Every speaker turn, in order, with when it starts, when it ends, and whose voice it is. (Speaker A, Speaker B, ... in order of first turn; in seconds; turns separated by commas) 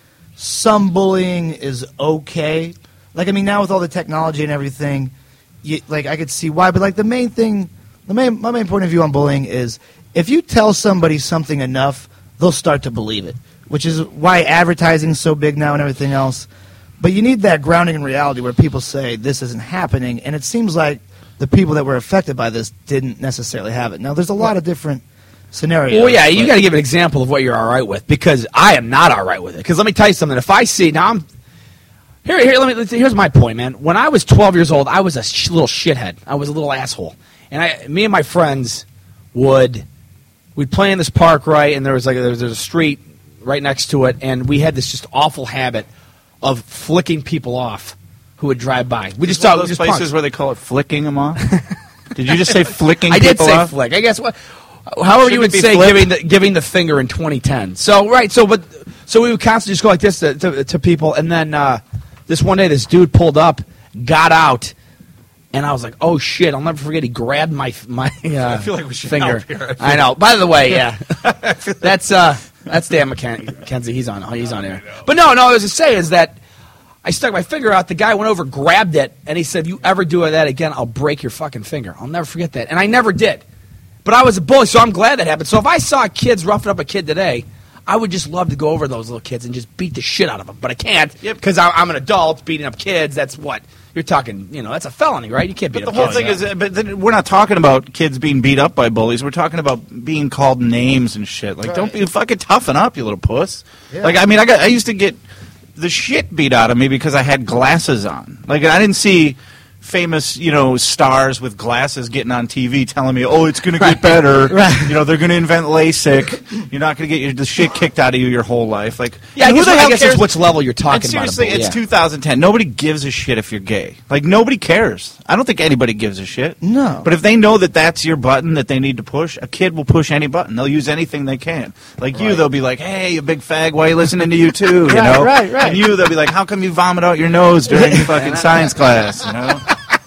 Speaker A: 0.4-16.5, Speaker A: 17.0-26.6, Speaker B: 25.9-31.2, Speaker B: 32.2-39.9, Speaker B: 40.6-45.9, Speaker B: 46.4-50.1, Speaker C: 49.3-51.5, Speaker C: 52.1-53.7, Speaker B: 52.5-54.4, Speaker B: 54.9-64.7, Speaker C: 55.2-56.1, Speaker B: 65.5-76.4, Speaker C: 68.4-70.2, Speaker C: 71.2-71.8, Speaker B: 77.0-83.4, Speaker B: 84.0-96.4, Speaker C: 95.7-105.2, Speaker A: 101.7-102.0, Speaker A: 103.9-104.2, Speaker C: 105.8-120.3, Speaker A: 114.5-115.0, Speaker B: 119.4-121.8, Speaker C: 120.9-139.8, Speaker A: 126.6-127.1, Speaker A: 134.9-135.8, Speaker B: 138.1-138.5